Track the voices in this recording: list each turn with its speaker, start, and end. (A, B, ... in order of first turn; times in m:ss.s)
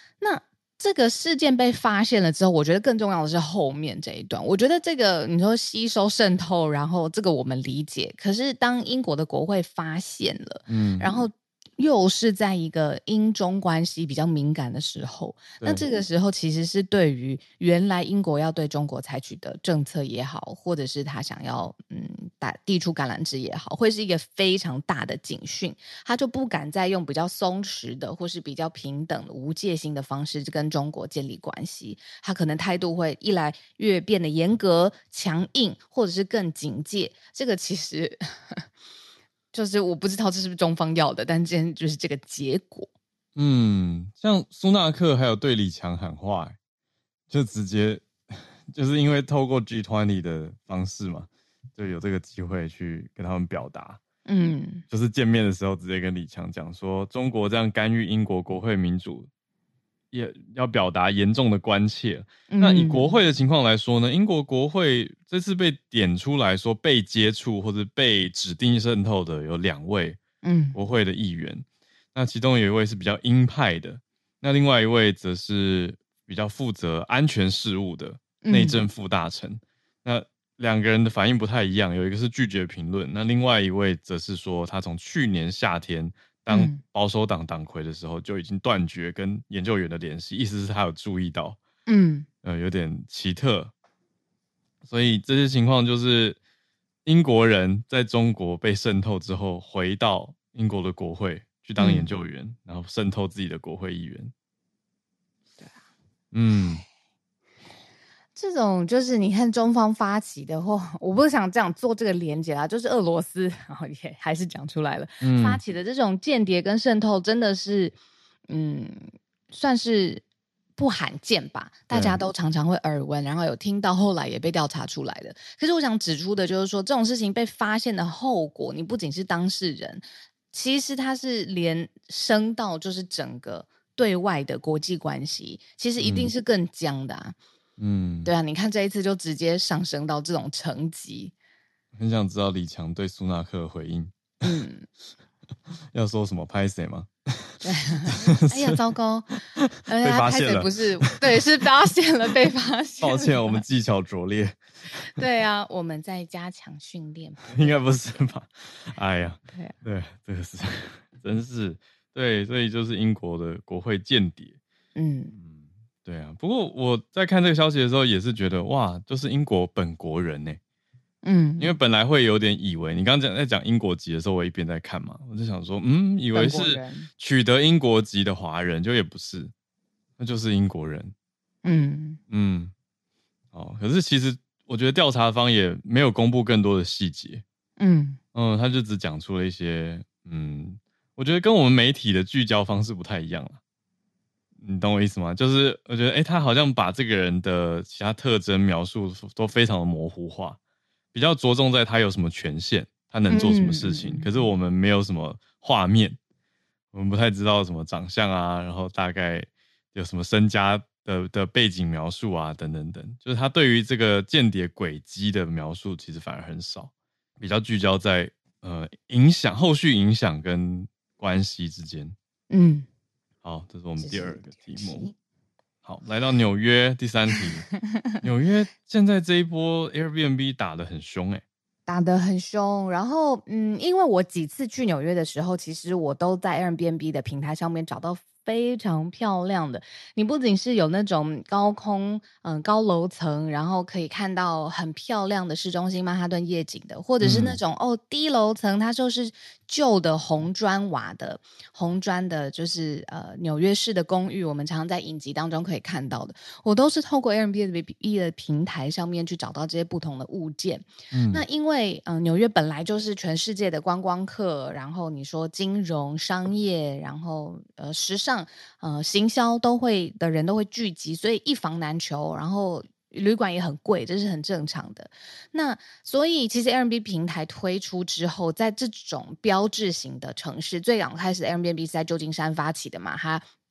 0:00.2-0:38.7 A
0:10.7-0:11.1 B
0:39.5-0:42.9 A
0:43.4-0:46.6 B
0:47.3-0:54.0 B
0:54.2-0:54.8 A
0:54.9-0:59.3 B
1:00.1-1:10.2 B
1:02.5-1:03.1 A
1:10.4-1:10.8 A
1:10.7-1:31.6 B
1:18.4-1:18.8 A
1:26.5-1:26.8 A
1:31.9-1:32.2 A
1:32.4-1:33.7 B
1:34.8-1:36.4 B
1:37.0-1:44.3 B
1:41.8-1:42.1 A
1:46.3-1:46.8 B
1:48.4-1:57.9 A
1:55.2-1:55.6 B
1:58.5-2:00.2 A
2:00.8-2:17.4 A
2:01.9-2:02.2 B
2:16.0-2:16.3 B
2:17.8-2:18.3 B
2:18.2-2:21.3 A
2:21.9-2:24.1 B
2:24.4-2:24.8 A
2:25.9-2:28.8 B
2:27.6-2:33.6 A
2:29.5-2:30.7 B
2:33.0-2:34.6 B
2:35.1-2:37.7 A
2:37.5-2:44.6 B
2:44.9-2:45.3 A
2:45.3-2:50.6 B
2:51.2-2:51.7 A
2:51.6-2:59.5 B
2:56.3-2:57.1 A
3:00.2-3:01.1 B
3:01.6-3:02.2 A
3:02.3-3:02.7 B
3:03.5-3:07.4 B
3:07.8-3:08.2 A
3:08.3-3:13.6 B
3:14.6-3:20.6 B
3:21.1-3:26.2 B
3:23.3-3:24.3 A
3:26.9-3:42.1 B
3:42.5-3:42.9 A
3:43.4-3:45.1 B
3:44.0-3:45.1 A
3:45.8-3:51.4 B
3:51.8-4:43.4 A
4:07.2-4:07.6 B
4:21.1-4:21.4 B